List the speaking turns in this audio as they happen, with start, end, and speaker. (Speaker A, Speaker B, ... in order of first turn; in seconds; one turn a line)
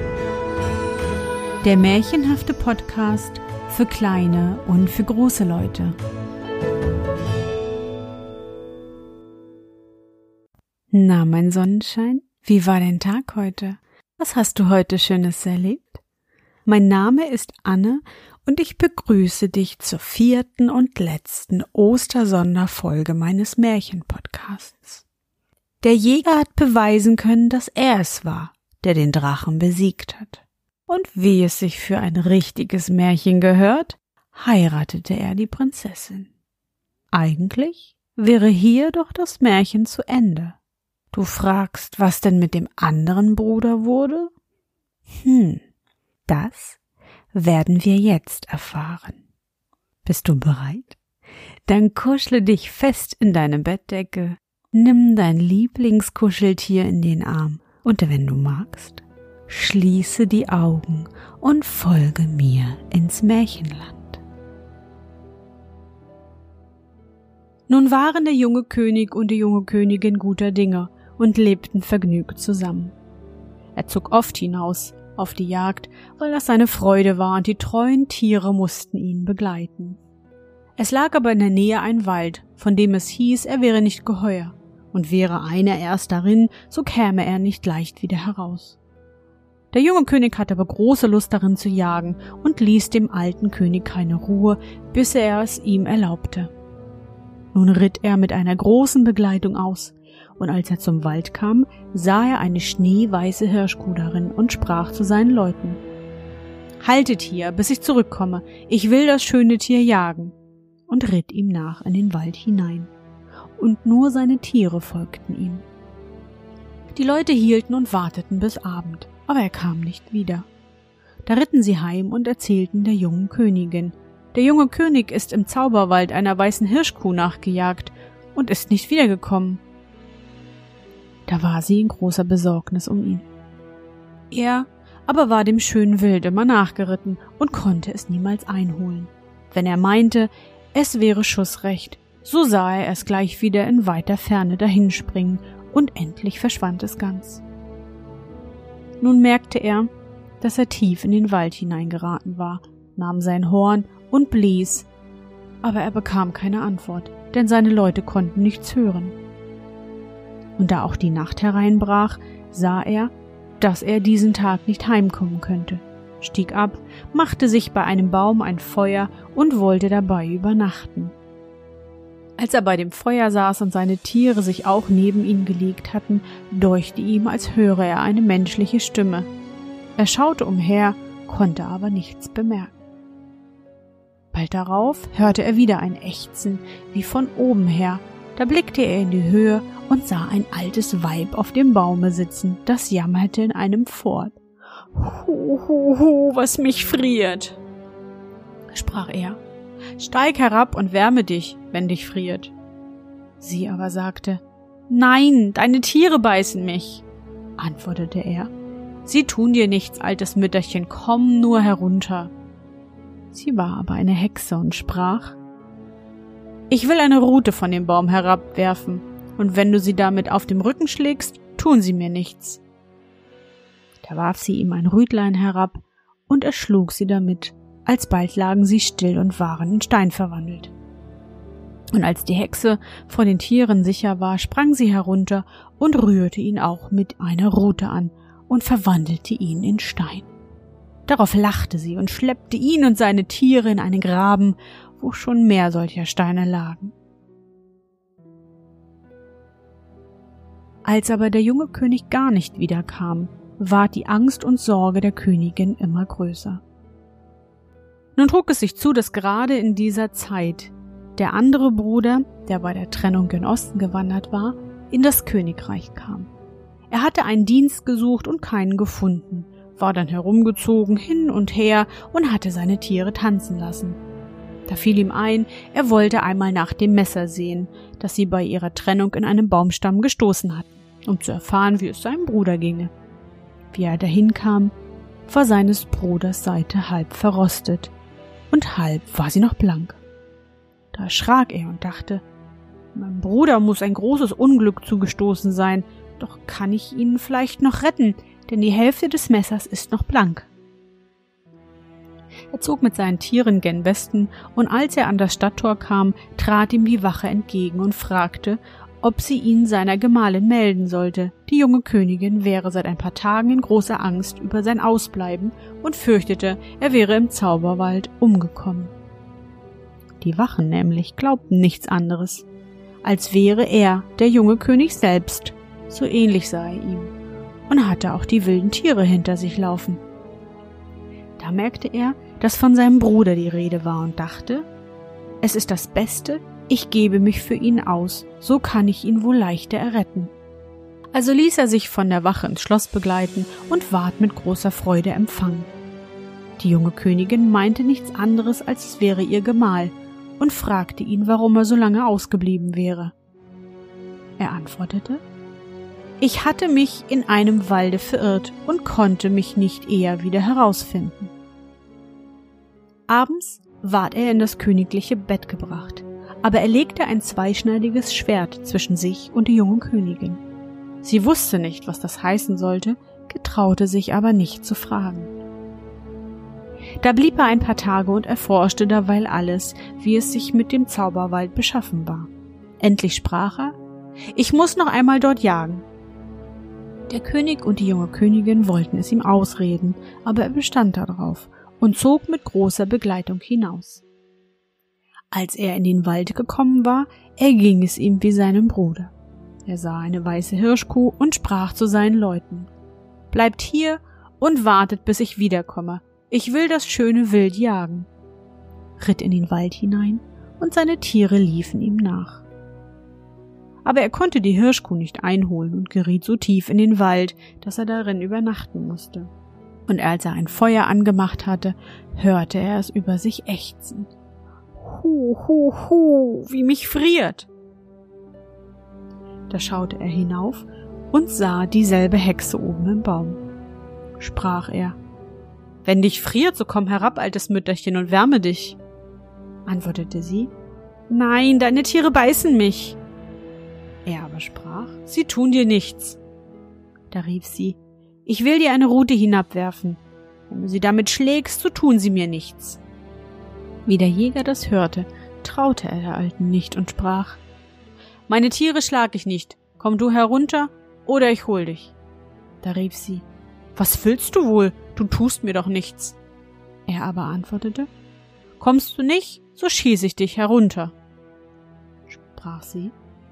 Speaker A: 1.6-6.0
Speaker A: 10.9-16.0
Speaker A: 16.7-25.1
Speaker A: 25.8-36.3
Speaker A: 37.1-40.6
Speaker A: 41.1-44.3
Speaker A: 45.2-45.6
Speaker A: 46.3-46.8
Speaker A: 47.3-49.2
Speaker A: 50.0-51.0
Speaker A: 51.7-64.2
Speaker A: 67.7-72.9
Speaker A: 73.8-80.0
Speaker A: 80.8-88.8
Speaker A: 89.7-96.5
Speaker A: 97.5-105.8
Speaker A: 106.8-110.4
Speaker A: 110.9-112.9
Speaker A: 113.6-115.7
Speaker A: 116.9-120.5
Speaker A: 121.3-129.6
Speaker A: 131.3-133.3
Speaker A: 134.3-147.4
Speaker A: 149.0-149.9
Speaker A: 150.4-154.9
Speaker A: 155.6-159.2
Speaker A: 160.6-171.2
Speaker A: 172.4-179.3
Speaker A: 180.0-182.8
Speaker A: 184.3-194.4
Speaker A: 194.9-197.6
Speaker A: 198.7-199.4
Speaker A: 200.0-202.5
Speaker A: 203.4-207.1
Speaker A: 207.6-208.5
Speaker A: 209.1-212.3
Speaker A: 213.3-215.4
Speaker A: 216.7-222.6
Speaker A: 224.0-230.7
Speaker A: 231.9-240.3
Speaker A: 241.1-246.9
Speaker A: 250.8-256.6
Speaker A: 258.2-266.3
Speaker A: 266.9-274.0
Speaker A: 274.7-282.9
Speaker A: 283.7-284.7
Speaker A: 285.3-287.9
Speaker A: 288.5-290.0
Speaker A: 290.9-292.2
Speaker A: 292.9-300.5
Speaker A: 302.5-318.9
Speaker A: 320.2-322.5
Speaker A: 323.0-327.1
Speaker A: 327.7-330.0
Speaker A: 331.4-334.7
Speaker A: 335.4-340.3
Speaker A: 341.1-345.7
Speaker A: 346.6-353.1
Speaker A: 354.4-355.2
Speaker A: 356.2-361.3
Speaker A: 363.1-370.4
Speaker A: 371.0-375.3
Speaker A: 377.0-383.8
Speaker A: 384.3-385.9
Speaker A: 387.1-394.0
Speaker A: 395.3-399.1
Speaker A: 399.7-402.7
Speaker A: 403.3-408.1
Speaker A: 409.0-412.4
Speaker A: 413.9-419.3
Speaker A: 419.9-424.1
Speaker A: 424.8-427.5
Speaker A: 429.5-433.4
Speaker A: 434.2-435.0
Speaker A: 435.9-438.8
Speaker A: 439.7-440.5
Speaker A: 441.1-443.0
Speaker A: 444.1-446.2
Speaker A: 447.1-452.8
Speaker A: 453.9-457.4
Speaker A: 458.3-461.9
Speaker A: 462.6-466.2
Speaker A: 466.9-467.9
Speaker A: 468.6-470.9
Speaker A: 472.1-472.9